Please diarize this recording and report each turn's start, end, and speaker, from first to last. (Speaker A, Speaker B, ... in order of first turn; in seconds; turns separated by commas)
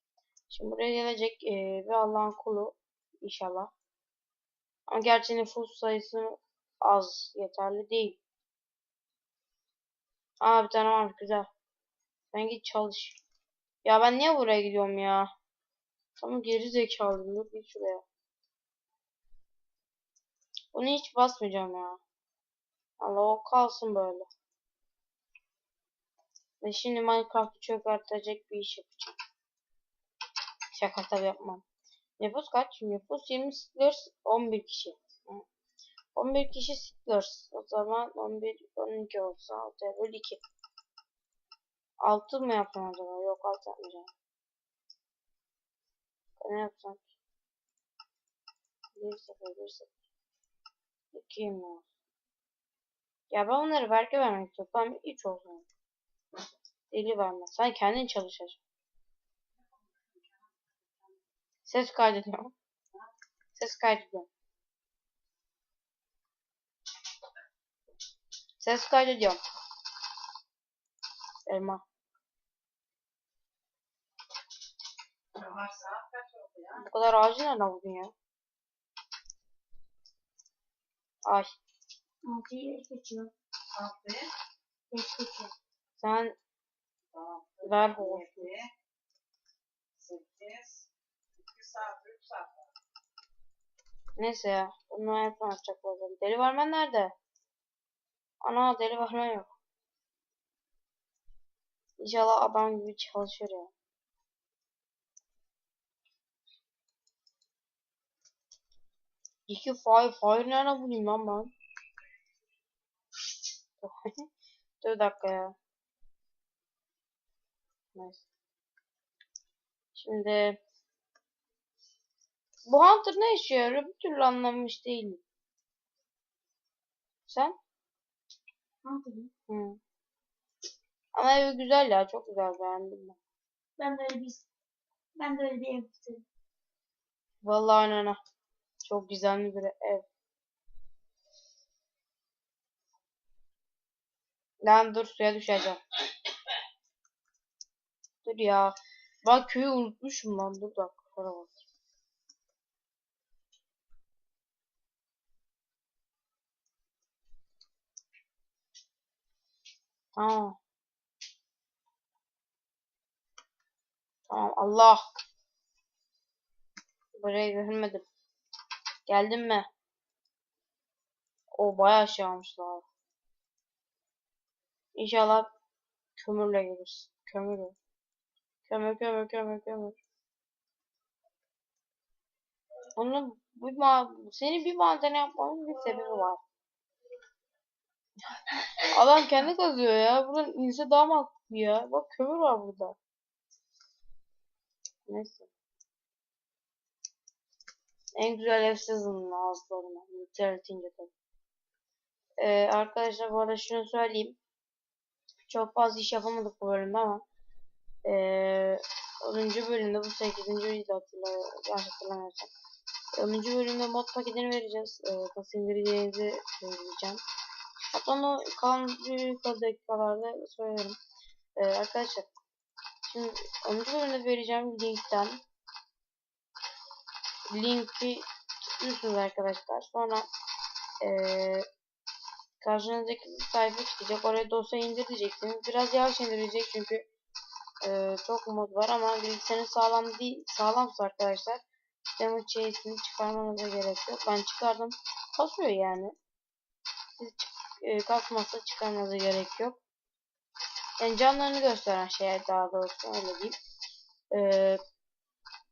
Speaker A: 0.5-3.7, Speaker A: 4.9-8.2, Speaker A: 10.4-11.5, Speaker A: 12.3-13.2, Speaker A: 13.8-15.3, Speaker A: 16.2-18.0, Speaker A: 20.7-22.0, Speaker A: 23.0-24.3, Speaker A: 26.6-29.2, Speaker A: 30.7-31.6, Speaker A: 32.2-35.4, Speaker A: 36.1-40.4, Speaker A: 42.0-44.1, Speaker A: 46.4-47.1, Speaker A: 49.0-49.9, Speaker A: 51.1-51.8, Speaker A: 53.3-55.7, Speaker A: 56.9-58.6, Speaker A: 61.6-62.5, Speaker A: 63.5-64.3, Speaker A: 68.6-69.4, Speaker A: 71.5-71.8, Speaker B: 75.4-76.5, Speaker A: 76.7-78.1, Speaker C: 82.2-83.3, Speaker B: 83.8-84.2, Speaker C: 84.9-85.5, Speaker A: 86.0-86.3, Speaker B: 87.2-87.5, Speaker A: 87.6-88.5, Speaker B: 90.0-90.8, Speaker B: 91.5-92.5, Speaker A: 94.2-97.1, Speaker A: 98.4-99.5, Speaker A: 102.0-103.7, Speaker A: 109.5-111.5, Speaker A: 113.8-114.2, Speaker A: 114.8-115.5, Speaker A: 117.9-118.2, Speaker A: 119.9-120.6, Speaker A: 122.7-125.2, Speaker A: 127.2-127.6, Speaker C: 128.8-129.3, Speaker A: 129.5-129.8, Speaker A: 131.1-133.2, Speaker C: 133.8-134.4, Speaker C: 135.1-136.2, Speaker A: 137.4-138.2, Speaker A: 138.8-140.0, Speaker A: 144.6-145.8, Speaker A: 148.2-151.6, Speaker A: 160.1-160.6, Speaker A: 164.3-165.1, Speaker A: 167.2-168.0, Speaker A: 169.1-169.7, Speaker A: 171.5-172.8, Speaker A: 174.9-175.5, Speaker A: 176.2-177.8, Speaker A: 178.7-180.0, Speaker A: 182.9-186.4, Speaker A: 188.8-193.0, Speaker A: 195.1-195.5, Speaker A: 198.2-201.1, Speaker A: 202.4-204.4, Speaker A: 205.5-207.2, Speaker A: 208.0-212.5, Speaker A: 213.2-217.2, Speaker A: 217.9-220.9, Speaker A: 221.6-222.3, Speaker A: 223.0-225.4, Speaker A: 227.5-228.2, Speaker A: 228.8-230.3, Speaker A: 231.0-231.7, Speaker A: 232.6-237.1, Speaker A: 237.8-241.6, Speaker A: 242.1-246.1, Speaker A: 247.2-249.8, Speaker A: 251.0-253.6, Speaker A: 254.3-254.8